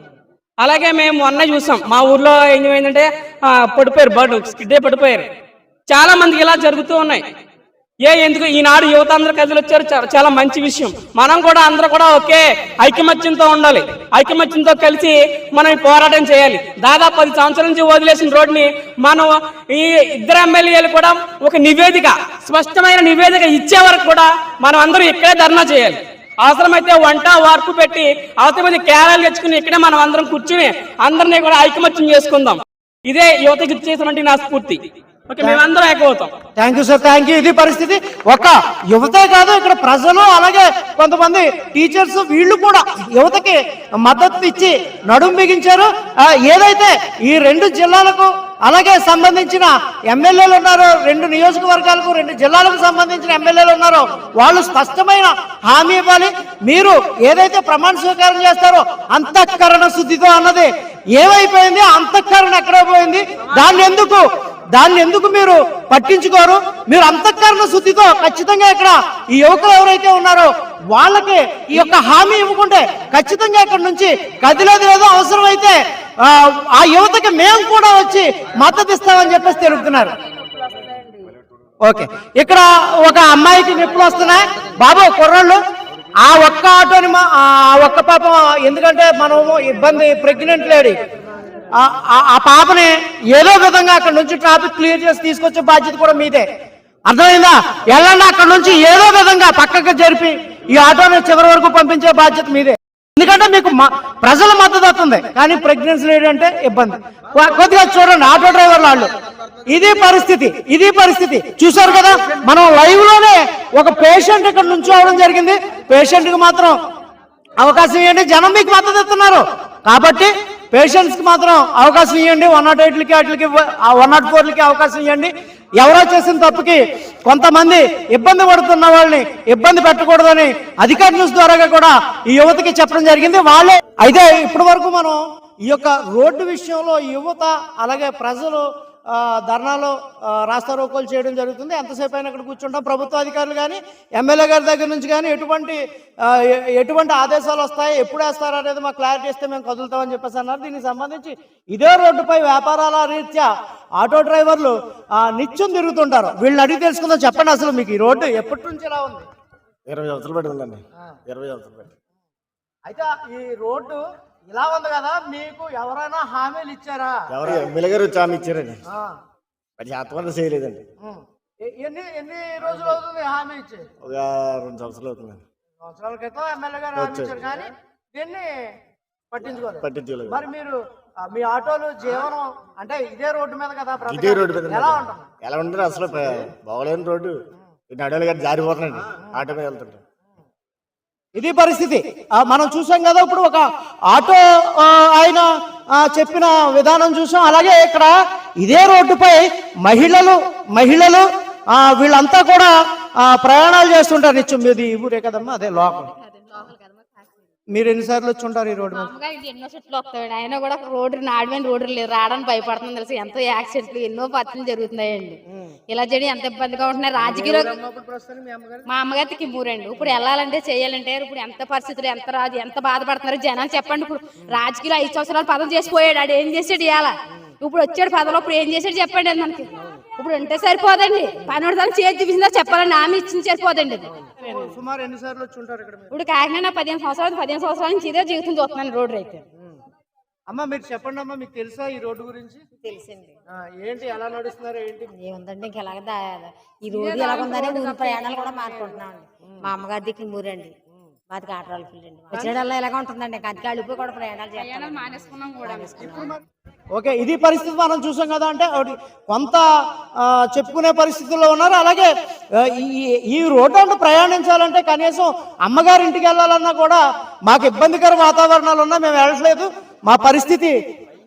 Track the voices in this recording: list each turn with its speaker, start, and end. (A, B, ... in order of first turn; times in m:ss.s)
0:00.6-0:05.3 A
0:05.9-0:07.2 A
0:08.0-0:36.3 A
0:36.6-1:20.1 B
1:21.8-1:25.6 B
1:26.2-1:31.0 B
1:31.8-1:36.5 B
1:37.1-1:49.1 B
1:49.7-1:56.8 B
1:57.6-2:39.3 B
2:39.9-2:41.9 C
2:42.9-2:47.6 B
2:47.3-2:48.8 C
2:48.9-2:49.2 B
2:49.8-2:50.8 C
2:51.0-2:53.9 B
2:54.0-2:55.4 C
2:55.8-2:58.7 B
2:57.0-2:57.4 C
2:59.3-3:05.3 B
2:59.8-3:00.4 C
3:04.0-3:10.0 C
3:11.4-3:26.1 B
3:26.0-3:27.3 D
3:27.7-3:29.1 B
3:28.9-3:37.7 D
3:37.2-3:38.9 B
3:38.9-3:54.1 D
3:54.5-3:56.2 B
3:56.1-3:59.4 D
4:00.5-4:02.7 B
4:02.8-4:03.4 E
4:03.6-4:05.1 B
4:05.1-4:10.7 E
4:06.9-4:09.0 D
4:11.3-4:16.3 E
4:12.3-4:12.6 B
4:14.6-4:16.3 D
4:16.9-4:30.7 B